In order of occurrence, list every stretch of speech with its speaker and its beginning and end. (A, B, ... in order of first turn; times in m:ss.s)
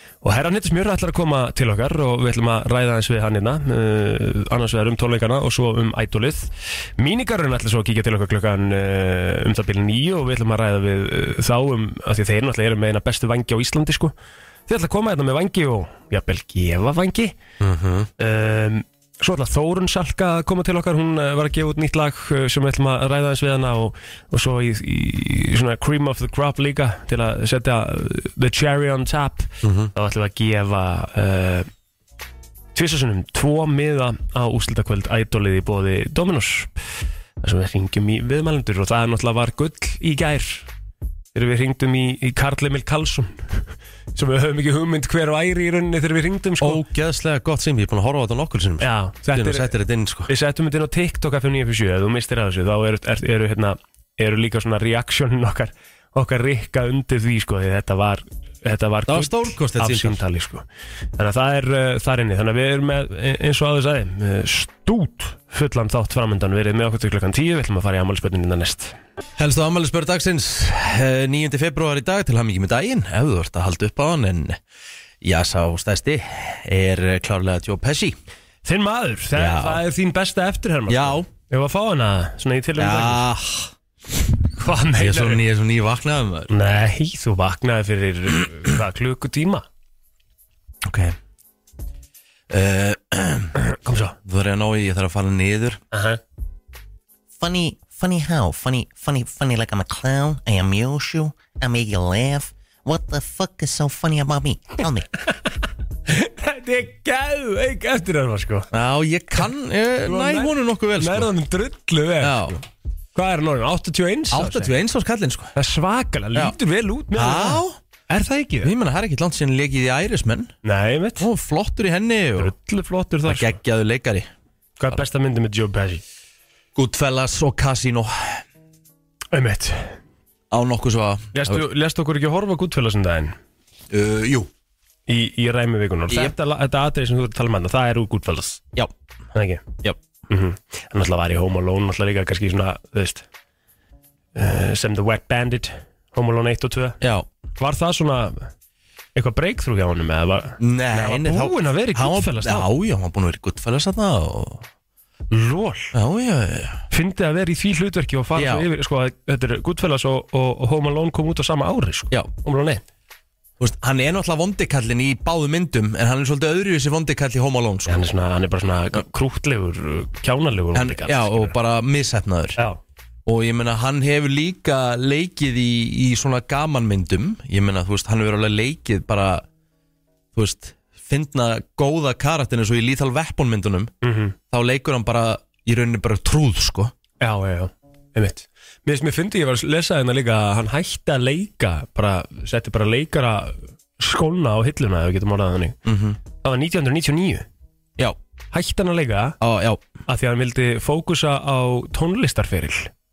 0:00.2-0:14.1 A
0:14.7-0:17.4 A
0:17.6-0:18.1 B
0:18.2-0:31.7 A
0:29.6-0:29.9 B
0:32.7-0:36.7 A
0:37.4-0:40.7 A
0:41.3-0:43.6 A
0:44.1-0:46.8 A
0:46.6-0:50.3 B
0:48.8-0:49.7 A
0:50.3-1:00.6 A
0:59.1-1:00.2 B
1:01.2-1:08.9 A
1:09.4-1:14.6 B
1:15.2-1:18.2 B
1:18.6-1:23.2 A
1:19.3-1:19.8 B
1:20.9-1:21.3 B
1:22.8-1:23.7 B
1:24.6-1:25.4 A
1:25.0-1:26.5 B
1:26.5-1:29.6 A
1:30.8-1:31.2 B
1:32.5-1:33.5 B
1:33.6-1:34.2 A
1:34.2-1:35.8 B
1:35.9-1:36.2 A
1:37.4-1:45.1 C
1:46.1-1:48.7 A
1:48.7-1:51.3 B
1:50.0-1:52.6 A
1:52.2-1:52.6 B
1:53.1-1:54.7 A
1:54.3-1:55.5 B
1:55.5-1:58.7 A
1:57.1-1:57.8 B
1:58.6-2:00.5 B
2:00.6-2:01.3 A
2:01.2-2:02.5 B
2:02.4-2:03.6 A
2:03.2-2:04.3 B
2:04.8-2:06.0 A
2:06.7-2:08.4 B
2:09.3-2:09.9 A
2:10.5-2:11.6 B
2:11.3-2:13.3 A
2:13.9-2:14.5 B
2:15.1-2:18.6 A
2:19.3-2:19.6 A
2:20.3-2:23.3 A
2:24.3-2:27.0 A
2:27.0-2:27.3 B
2:27.6-2:28.5 A
2:29.1-2:32.7 A
2:30.6-2:34.6 B
2:35.3-2:35.9 A
2:35.9-2:36.8 B
2:36.9-2:42.8 A
2:38.3-2:38.7 B
2:43.6-2:48.0 B
2:47.9-2:51.5 A
2:50.7-2:52.6 B
2:53.2-2:59.4 B
3:00.3-3:03.9 B
3:04.0-3:04.3 A
3:04.5-3:06.9 B
3:07.2-3:15.8 A
3:15.8-3:16.2 B
3:16.4-3:17.4 A
3:18.5-3:19.4 A
3:19.4-3:19.8 B
3:20.0-3:22.9 A